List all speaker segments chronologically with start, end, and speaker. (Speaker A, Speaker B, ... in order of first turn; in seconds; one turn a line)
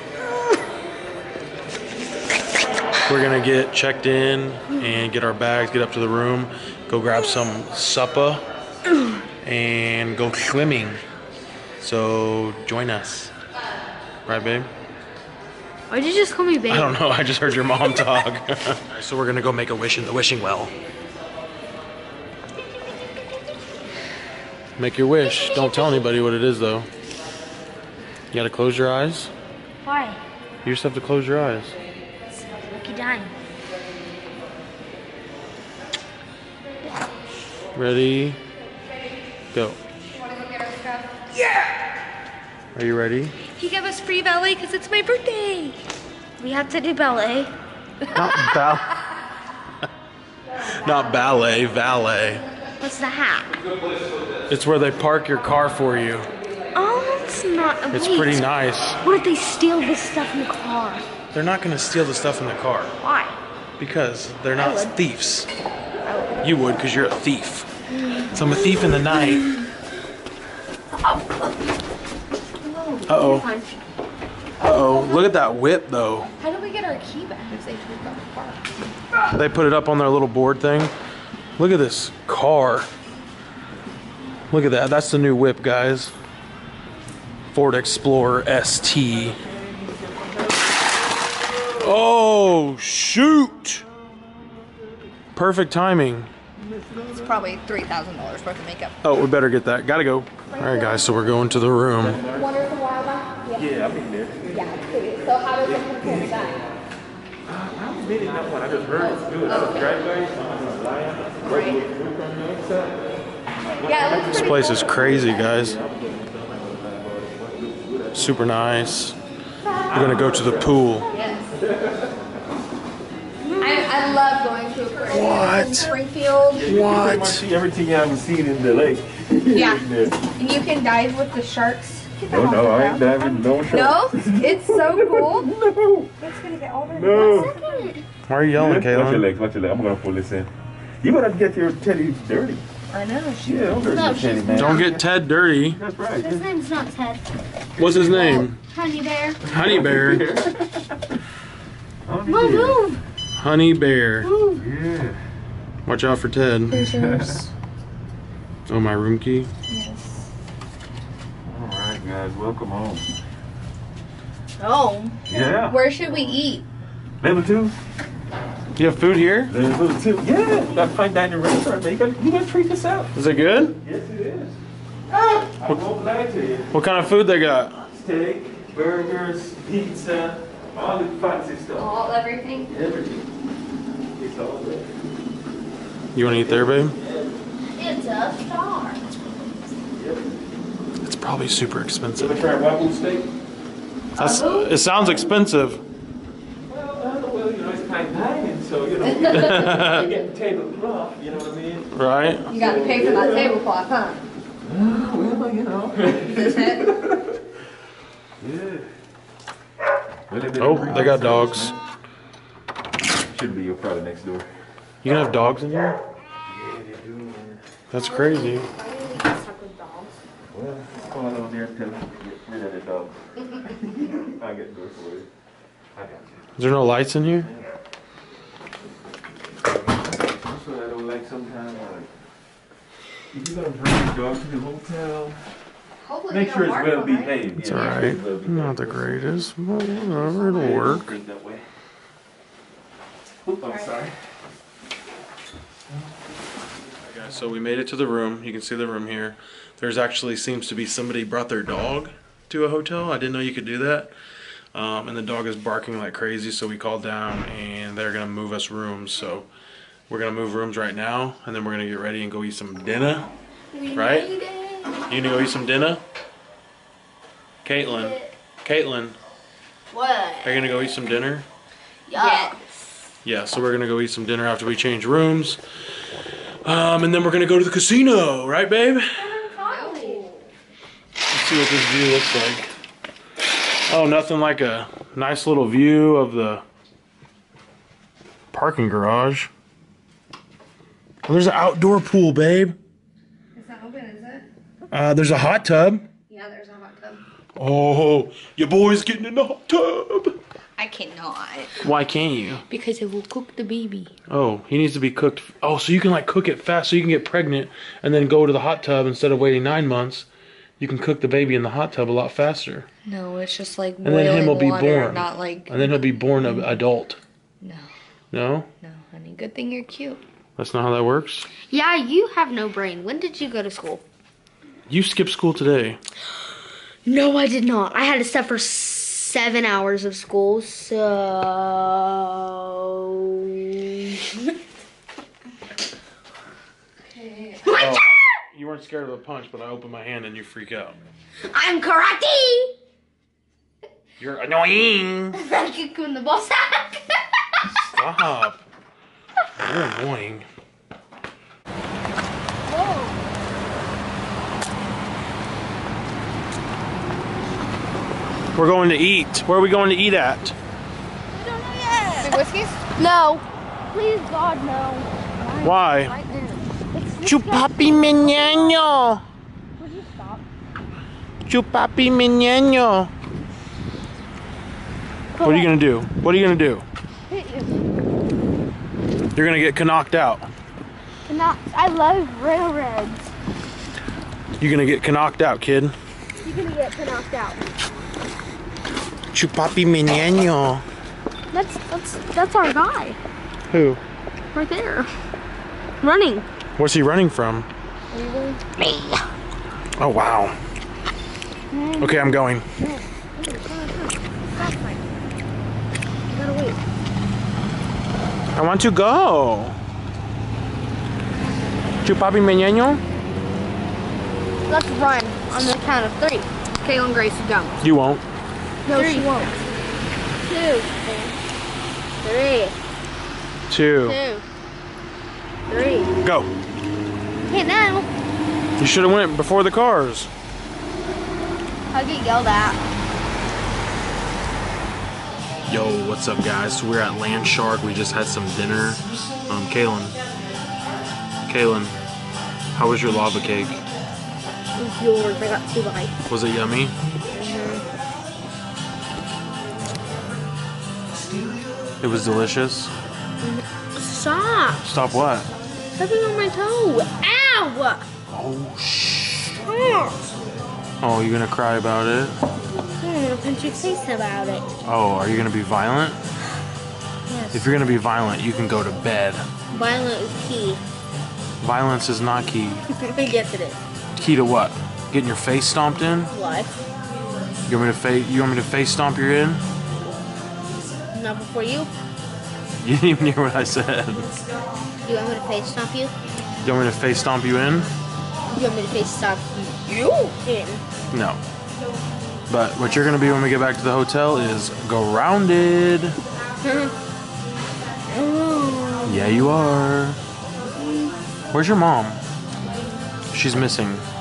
Speaker A: 3.0-8.4
Speaker B: 8.9-9.2
Speaker A: 9.4-11.0
Speaker A: 11.8-13.3
Speaker A: 14.2-14.7
Speaker B: 15.9-17.0
Speaker A: 16.7-20.7
Speaker B: 17.8-18.1
Speaker A: 24.8-26.9
Speaker B: 25.2-26.1
Speaker A: 28.3-29.3
Speaker B: 29.8-30.2
Speaker A: 30.6-31.8
Speaker B: 32.6-33.3
Speaker A: 37.7-38.4
Speaker A: 39.5-39.8
Speaker C: 40.1-41.2
Speaker A: 42.7-43.3
Speaker C: 43.6-45.8
Speaker B: 46.4-47.5
Speaker A: 48.1-49.0
Speaker A: 50.8-52.4
Speaker B: 52.8-53.6
Speaker A: 54.5-56.3
Speaker B: 56.7-58.4
Speaker A: 57.9-59.0
Speaker B: 59.0-61.0
Speaker A: 61.3-62.9
Speaker B: 63.0-63.4
Speaker A: 63.8-65.5
Speaker B: 64.5-64.9
Speaker B: 66.0-66.3
Speaker A: 66.4-67.7
Speaker B: 67.9-69.5
Speaker A: 68.3-69.5
Speaker C: 72.6-73.7
Speaker A: 73.1-73.5
Speaker A: 74.6-76.3
Speaker C: 74.7-75.3
Speaker C: 76.4-78.6
Speaker A: 79.3-80.9
Speaker A: 81.6-82.9
Speaker A: 84.5-86.1
Speaker A: 87.5-89.4
Speaker D: 89.5-90.3
Speaker A: 91.8-93.8
Speaker A: 95.3-96.3
Speaker D: 96.6-97.5
Speaker C: 97.0-98.9
Speaker A: 99.0-102.2
Speaker C: 100.5-101.0
Speaker D: 102.0-102.5
Speaker C: 102.2-103.7
Speaker D: 103.5-104.8
Speaker C: 104.5-106.6
Speaker D: 105.9-106.5
Speaker D: 107.5-113.1
Speaker C: 109.5-109.7
Speaker C: 111.5-111.8
Speaker C: 113.8-114.9
Speaker D: 113.8-118.3
Speaker A: 114.3-115.8
Speaker A: 118.1-119.2
Speaker D: 119.9-120.8
Speaker A: 119.9-121.1
Speaker C: 121.1-121.6
Speaker B: 123.4-123.9
Speaker C: 123.6-126.7
Speaker A: 125.1-125.9
Speaker D: 126.5-130.3
Speaker A: 126.6-127.5
Speaker C: 129.5-135.5
Speaker D: 132.3-136.1
Speaker C: 136.2-137.7
Speaker D: 136.9-137.5
Speaker B: 137.1-138.0
Speaker A: 138.3-139.3
Speaker D: 138.5-142.6
Speaker C: 142.9-143.8
Speaker D: 143.4-145.1
Speaker B: 143.8-144.9
Speaker A: 144.5-145.8
Speaker D: 145.7-146.5
Speaker B: 146.2-147.2
Speaker D: 147.8-148.4
Speaker A: 147.8-148.6
Speaker B: 148.0-149.4
Speaker A: 149.4-150.3
Speaker D: 149.5-150.9
Speaker D: 152.1-152.8
Speaker B: 152.3-153.0
Speaker C: 152.3-152.7
Speaker A: 153.4-154.3
Speaker D: 154.5-155.2
Speaker A: 155.8-156.8
Speaker C: 156.7-157.5
Speaker D: 156.8-157.5
Speaker A: 158.7-159.5
Speaker C: 159.7-160.2
Speaker D: 161.4-163.1
Speaker B: 164.6-165.1
Speaker D: 165.3-166.4
Speaker C: 165.6-166.6
Speaker D: 167.2-167.8
Speaker A: 168.8-169.5
Speaker D: 169.5-173.1
Speaker A: 173.1-173.8
Speaker D: 173.8-174.6
Speaker D: 175.5-176.8
Speaker A: 176.7-177.8
Speaker D: 177.9-182.0
Speaker C: 181.8-182.7
Speaker D: 182.6-183.3
Speaker D: 184.2-184.9
Speaker A: 186.1-186.9
Speaker D: 186.2-187.4
Speaker B: 187.8-189.2
Speaker D: 189.9-190.3
Speaker A: 191.0-192.4
Speaker D: 192.2-193.3
Speaker A: 194.2-195.8
Speaker C: 194.2-194.6
Speaker D: 196.7-201.9
Speaker A: 199.2-200.1
Speaker A: 201.9-202.5
Speaker D: 202.5-203.6
Speaker C: 202.5-204.2
Speaker D: 204.6-207.2
Speaker C: 206.4-206.8
Speaker D: 208.4-208.9
Speaker D: 210.3-211.8
Speaker A: 210.6-211.7
Speaker D: 213.2-214.5
Speaker A: 215.0-216.0
Speaker D: 216.5-217.6
Speaker A: 217.9-218.7
Speaker C: 218.0-220.2
Speaker B: 218.1-218.4
Speaker D: 220.5-225.3
Speaker D: 225.9-226.4
Speaker A: 226.6-227.5
Speaker D: 229.9-232.1
Speaker D: 233.3-235.4
Speaker C: 236.0-238.1
Speaker D: 236.3-241.6
Speaker A: 237.6-241.1
Speaker C: 240.5-240.9
Speaker D: 243.4-244.1
Speaker C: 243.6-243.9
Speaker A: 247.0-254.1
Speaker A: 254.7-259.5
Speaker A: 260.1-263.3
Speaker B: 263.7-265.0
Speaker A: 263.9-264.3
Speaker A: 265.1-266.0
Speaker A: 267.6-269.1
Speaker B: 267.9-268.3
Speaker B: 269.9-270.6
Speaker A: 270.4-271.4
Speaker C: 272.1-272.7
Speaker B: 272.1-272.5
Speaker A: 273.2-275.6
Speaker A: 276.6-279.5
Speaker B: 279.3-280.2
Speaker C: 279.6-280.3
Speaker A: 281.3-282.7
Speaker A: 283.5-286.6
Speaker A: 288.5-289.5
Speaker A: 291.2-292.7
Speaker C: 293.5-294.4
Speaker A: 294.9-296.1
Speaker C: 296.3-297.2
Speaker A: 297.6-300.4
Speaker C: 300.8-301.7
Speaker A: 301.8-302.6
Speaker C: 302.7-304.1
Speaker A: 304.3-310.3
Speaker A: 310.8-312.9
Speaker C: 313.1-316.0
Speaker A: 314.0-317.2
Speaker C: 317.6-317.9
Speaker A: 318.3-318.7
Speaker C: 318.8-320.2
Speaker A: 320.6-321.5
Speaker B: 321.7-324.0
Speaker A: 324.9-326.0
Speaker B: 327.1-334.5
Speaker C: 337.1-337.8
Speaker A: 337.7-341.0
Speaker B: 341.5-342.7
Speaker A: 344.2-345.4
Speaker B: 345.3-347.2
Speaker A: 347.7-348.6
Speaker A: 349.6-350.4
Speaker B: 352.7-353.1
Speaker A: 358.5-360.6
Speaker B: 361.3-362.4
Speaker C: 362.2-362.9
Speaker B: 362.9-368.8
Speaker A: 365.6-366.1
Speaker A: 367.2-369.2
Speaker B: 369.8-370.4
Speaker A: 371.4-373.1
Speaker B: 375.4-375.7
Speaker A: 375.4-376.9
Speaker B: 377.3-377.7
Speaker A: 379.3-380.5
Speaker B: 381.3-383.3
Speaker A: 384.6-385.9
Speaker B: 386.4-387.6
Speaker A: 389.3-390.8
Speaker B: 391.5-393.2
Speaker A: 393.7-394.0
Speaker B: 394.5-395.1
Speaker B: 396.0-396.4
Speaker A: 396.8-397.7
Speaker C: 398.1-398.6
Speaker B: 398.8-399.2
Speaker A: 400.0-400.6
Speaker B: 401.7-405.0
Speaker A: 402.0-402.6
Speaker B: 406.3-406.8
Speaker A: 408.5-409.8
Speaker A: 412.0-413.0
Speaker B: 414.7-416.5
Speaker C: 416.8-417.8
Speaker A: 417.8-418.2
Speaker C: 418.9-419.6
Speaker B: 418.9-419.3
Speaker B: 420.4-421.3
Speaker B: 422.2-422.7
Speaker A: 423.7-424.2
Speaker B: 424.0-424.4
Speaker B: 425.7-426.2
Speaker A: 426.2-426.5
Speaker B: 427.5-428.1
Speaker A: 428.8-430.3
Speaker B: 431.9-432.8
Speaker A: 435.7-440.1
Speaker A: 441.5-441.9
Speaker A: 442.7-443.8
Speaker B: 444.8-446.1
Speaker A: 446.3-446.9
Speaker B: 447.3-447.8
Speaker A: 452.0-452.9
Speaker B: 453.4-454.8
Speaker A: 454.8-455.5
Speaker B: 455.9-458.1
Speaker A: 458.3-459.6
Speaker B: 459.6-460.2
Speaker A: 461.0-462.4
Speaker B: 463.0-464.7
Speaker A: 464.8-466.2
Speaker B: 467.3-467.7
Speaker A: 467.5-469.4
Speaker B: 469.7-470.8
Speaker A: 471.6-472.8
Speaker B: 472.9-473.8
Speaker A: 474.1-476.3
Speaker B: 476.3-476.8
Speaker A: 477.7-479.6
Speaker B: 481.1-481.9
Speaker A: 482.8-484.3
Speaker B: 485.0-486.1
Speaker A: 486.6-487.9
Speaker B: 488.5-490.8
Speaker A: 491.1-491.4
Speaker A: 492.5-496.2
Speaker B: 496.6-496.9
Speaker B: 498.1-499.3
Speaker A: 499.0-500.2
Speaker B: 500.8-501.1
Speaker A: 501.5-502.2
Speaker A: 503.3-504.0